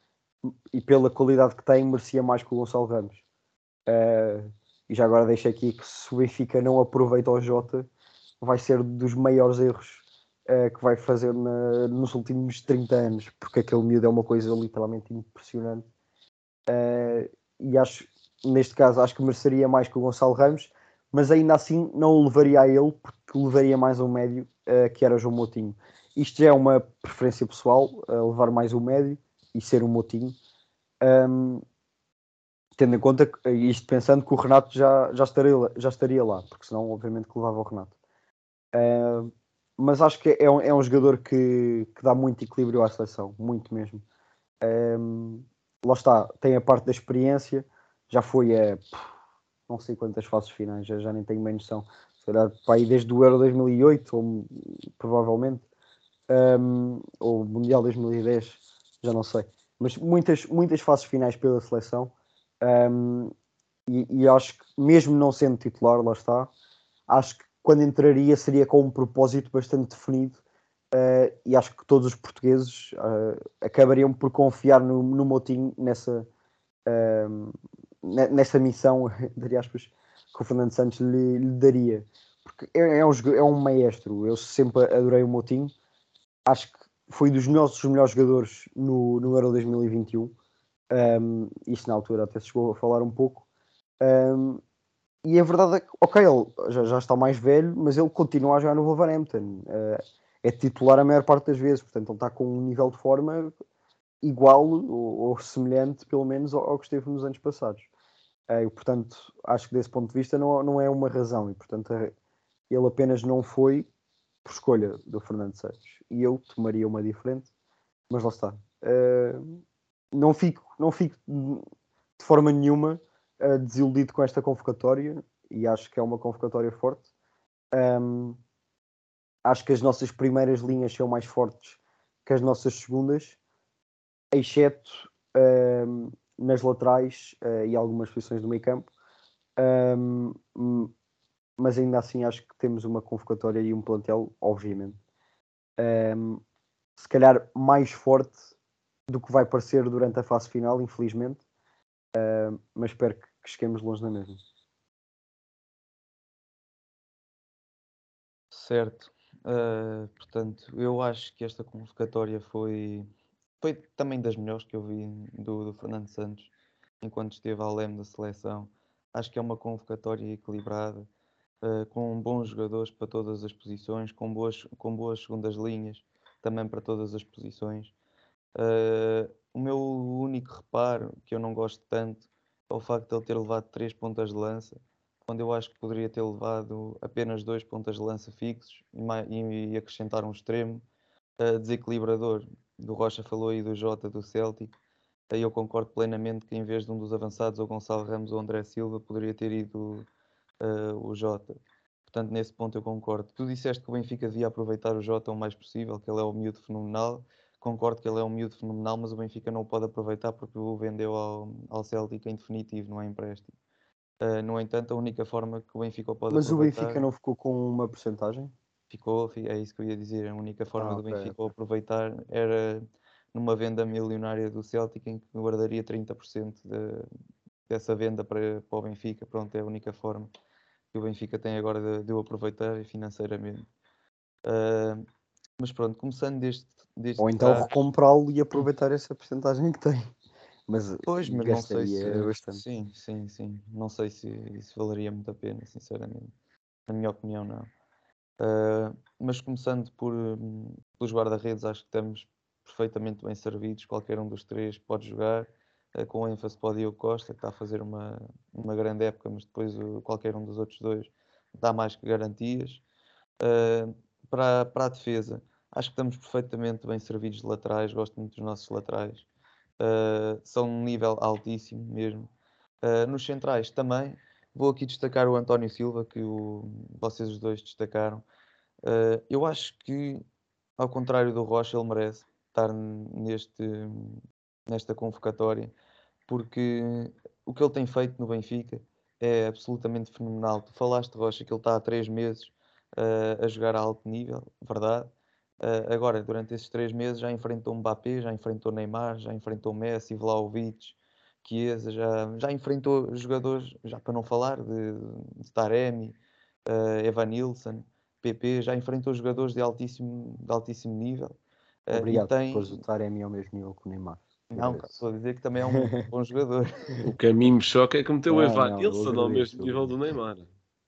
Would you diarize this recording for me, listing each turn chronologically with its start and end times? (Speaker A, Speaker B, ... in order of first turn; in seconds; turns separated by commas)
Speaker A: 0.7-3.2, Speaker A: 3.9-7.9, Speaker A: 8.4-15.9, Speaker A: 16.7-30.4, Speaker A: 31.0-31.6, Speaker A: 32.8-37.9, Speaker A: 38.7-44.0, Speaker A: 44.6-49.1, Speaker A: 49.7-55.6, Speaker A: 56.3-63.3, Speaker A: 63.9-66.5, Speaker A: 67.1-70.4, Speaker A: 70.9-76.3, Speaker A: 76.9-85.7, Speaker A: 86.5-90.3, Speaker A: 90.9-93.5, Speaker A: 94.0-94.6, Speaker A: 95.2-103.5, Speaker A: 104.2-107.9, Speaker A: 108.5-112.1, Speaker A: 112.7-113.9, Speaker A: 114.4-117.5, Speaker A: 118.1-119.4, Speaker A: 120.1-121.6, Speaker A: 122.2-127.0, Speaker A: 127.7-128.4, Speaker A: 129.4-133.4, Speaker A: 134.3-138.9, Speaker A: 139.6-140.9, Speaker A: 141.6-145.0, Speaker A: 145.8-146.4, Speaker A: 147.0-148.4, Speaker A: 149.1-151.4, Speaker A: 152.1-154.4, Speaker B: 158.5-163.1, Speaker B: 163.6-171.1, Speaker B: 171.6-177.9, Speaker B: 178.6-190.8, Speaker B: 191.4-194.8, Speaker B: 195.3-200.1, Speaker B: 200.6-213.5, Speaker B: 214.2-217.1, Speaker A: 216.3-218.5, Speaker B: 218.9-227.1, Speaker A: 220.8-221.4, Speaker B: 227.7-230.3, Speaker B: 230.9-233.7, Speaker B: 234.5-235.1, Speaker B: 235.6-237.8, Speaker A: 237.2-240.1, Speaker A: 240.7-242.6, Speaker B: 241.1-246.3, Speaker B: 246.9-247.7, Speaker B: 248.4-262.8, Speaker B: 263.4-269.3, Speaker B: 269.8-272.3, Speaker B: 272.8-278.2, Speaker B: 278.8-280.2, Speaker B: 280.8-285.7, Speaker B: 286.3-295.1, Speaker B: 295.6-311.4, Speaker B: 311.9-312.8, Speaker A: 311.9-314.9, Speaker B: 314.5-316.8, Speaker A: 315.7-316.0, Speaker C: 317.0-320.5, Speaker A: 318.3-319.9